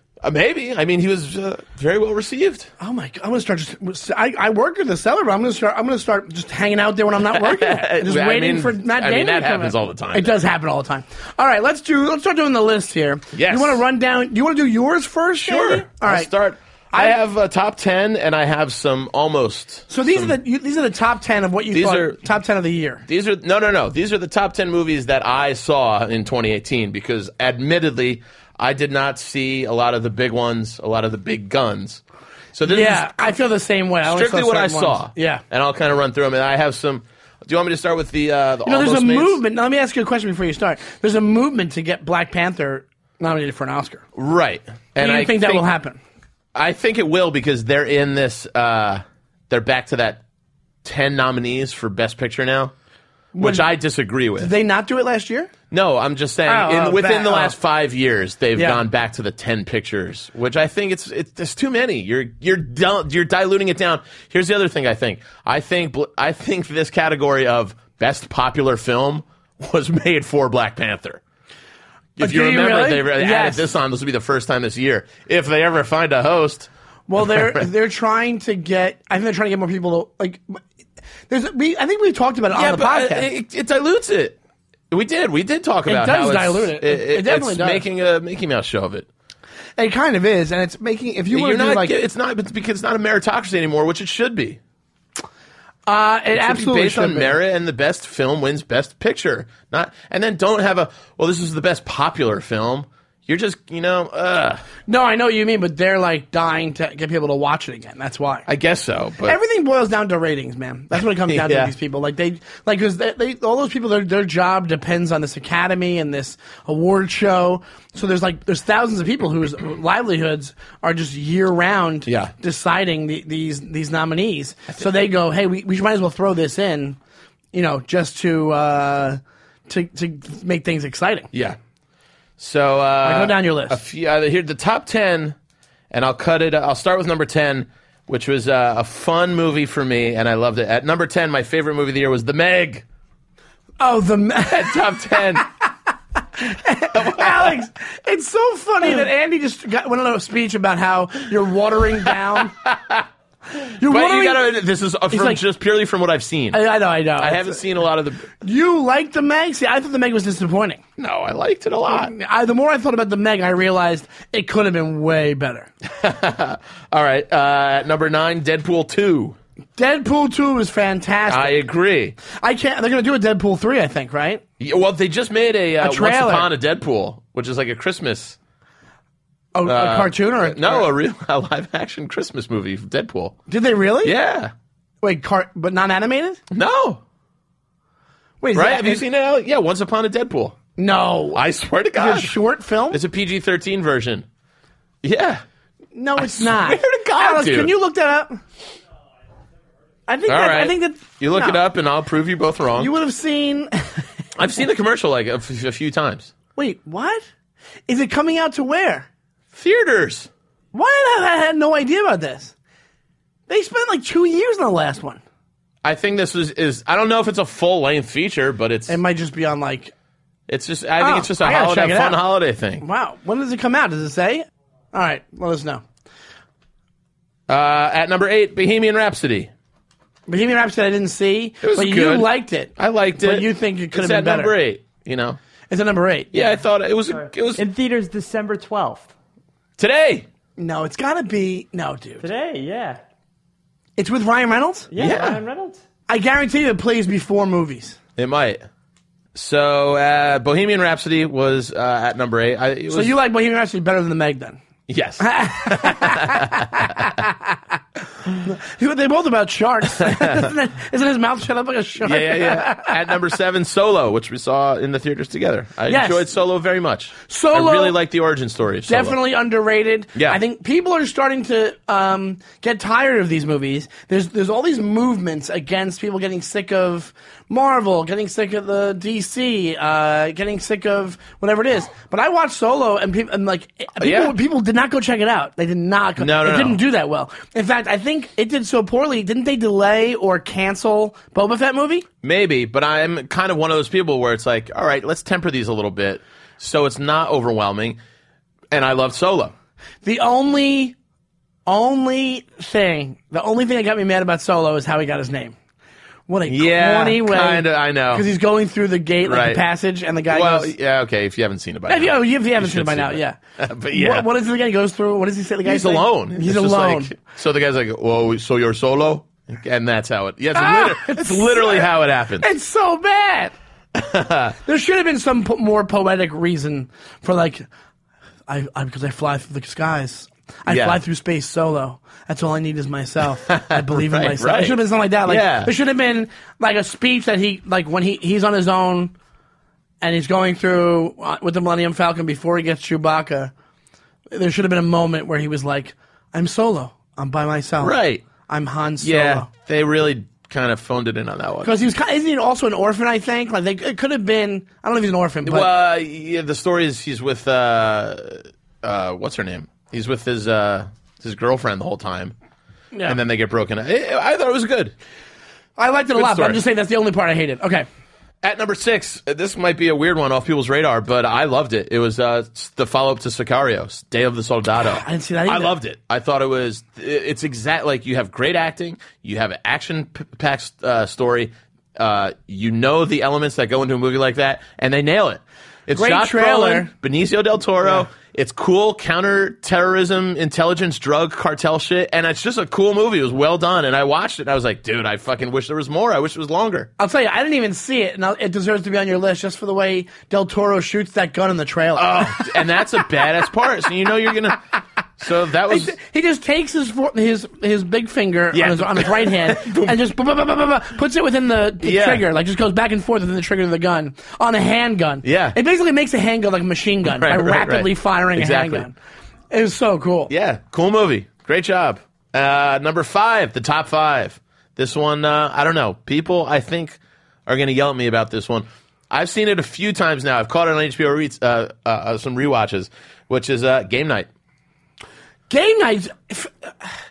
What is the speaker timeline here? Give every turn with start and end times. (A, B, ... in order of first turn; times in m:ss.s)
0:00.2-0:02.7 A
0:02.8-0:16.3 B
0:07.3-0:10.3 A
0:13.3-0:13.8 A
0:15.4-0:20.4 A
0:19.9-0:23.0 B
0:21.7-0:22.2 A
0:23.1-0:32.0 A
0:32.5-0:33.3 A
0:32.6-0:35.4 B
0:34.0-0:39.4 A
0:38.6-0:44.0 B
0:44.1-0:45.6 A
0:45.0-0:46.0 B
0:46.6-0:50.2 A
0:50.8-0:52.7 A
0:53.3-0:53.6 B
0:53.4-0:54.5 A
0:54.4-0:55.5 B
0:55.7-1:11.2 A
0:56.4-0:57.6 B
0:58.6-0:58.8 B
1:12.2-1:16.7 A
1:12.2-1:13.6 B
1:17.1-1:20.6 B
1:17.3-1:17.6 A
1:21.3-1:23.3 B
1:22.5-1:24.4 A
1:24.9-1:29.1 A
1:25.9-1:27.8 B
1:29.8-1:31.9 B
1:31.3-1:34.6 A
1:35.9-1:37.4 B
1:36.4-1:44.6 A
1:44.9-1:48.4 B
1:48.5-1:49.4 A
1:49.2-2:07.0 B
1:51.3-1:51.7 A
2:02.1-2:02.3 A
2:07.5-2:11.3 B
2:11.3-2:11.6 A
2:12.4-2:15.4 A
2:13.0-2:13.8 B
2:15.9-2:22.8 A
2:23.8-2:25.2 B
2:24.5-2:25.4 A
2:26.4-2:32.5 B
2:26.9-2:27.5 A
2:32.5-2:33.0 A
2:33.6-2:34.4 B
2:33.8-2:36.6 A
2:35.1-2:35.4 B
2:36.5-2:37.6 B
2:37.2-2:38.3 A
2:38.4-2:40.8 B
2:41.0-2:42.1 A
2:41.9-2:45.7 B
2:46.0-2:49.4 A
2:49.8-2:51.6 B
2:51.3-2:52.2 A
2:52.2-2:54.4 B
2:54.6-2:58.4 A
2:55.8-2:56.5 B
2:59.6-3:00.9 B
2:59.6-3:03.4 A
3:03.5-3:04.1 B
3:04.0-3:04.5 A
3:05.0-3:06.4 B
3:06.5-3:07.0 A
3:08.4-3:09.0 B
3:08.6-3:10.6 A
3:10.8-3:11.4 B
3:11.4-3:12.4 A
3:12.0-3:13.0 B
3:12.9-3:14.3 A
3:15.0-3:15.4 A
3:15.9-3:18.4 B
3:16.2-3:17.7 A
3:20.1-3:21.6 B
3:20.3-3:22.9 A
3:22.8-3:24.1 B
3:24.4-3:26.3 A
3:26.6-3:27.3 B
3:27.9-3:29.1 B
3:29.5-3:30.3 A
3:30.7-3:32.5 B
3:33.5-3:35.2 B
3:35.8-3:39.0 A
3:38.9-3:39.9 B
3:40.5-3:42.8 A
3:41.0-3:42.2 B
3:42.8-3:45.8 B
3:47.5-3:49.5 A
3:50.3-3:54.6 B
3:51.6-3:55.4 A
3:55.7-3:56.4 B
3:56.3-3:57.6 A
3:57.1-3:59.1 C
3:59.8-4:00.3 A
4:00.6-4:02.2 B
4:02.2-4:03.0 C
4:04.0-4:05.1 B
4:04.9-4:05.8 C
4:05.0-4:05.4 A
4:06.1-4:08.0 B
4:08.2-4:08.6 A
4:09.4-4:13.1 A
4:12.9-4:14.6 B
4:14.9-4:17.1 A
4:15.2-4:17.4 B
4:18.4-4:22.9 B
4:20.0-4:20.5 A
4:22.0-4:29.2 A
4:25.9-4:26.3 B
4:27.3-4:27.9 B
4:28.9-4:52.1 B
4:44.0-4:44.3 A
4:46.2-4:46.8 A
4:52.2-4:58.0 A
4:58.7-4:59.5 A
5:00.0-5:00.9 B
5:01.6-5:05.6 B
5:06.3-5:10.7 B
5:06.5-5:08.3 A
5:09.3-5:09.6 A
5:10.3-5:14.3 A
5:11.9-5:13.4 B
5:13.9-5:17.1 B
5:15.6-5:22.5 A
5:20.6-5:21.9 B
5:22.4-5:23.5 B
5:23.9-5:24.6 A
5:24.6-5:27.7 B
5:28.5-5:39.1 B
5:30.7-5:31.0 A
5:33.5-5:35.7 A
5:40.0-5:43.5 B
5:44.3-5:47.9 B
5:47.8-5:48.2 A
5:48.5-5:49.5 B
5:49.0-5:51.7 A
5:51.6-5:55.7 B
5:55.4-6:02.3 A
6:02.9-6:03.2 B
6:03.1-6:04.9 A
6:05.8-6:07.9 B
6:06.1-6:06.6 A
6:08.4-6:36.9 A
6:14.8-6:15.8 B
6:25.9-6:26.9 B
6:37.0-6:42.8 B
6:42.0-6:44.6 A
6:45.2-6:45.9 A
6:45.7-6:58.9 B
6:48.5-6:49.9 A
6:51.8-6:52.2 A
6:55.2-6:55.6 A
6:57.1-6:58.9 A
6:59.5-7:00.3 B
7:00.3-7:14.3 A
7:15.5-7:16.9 B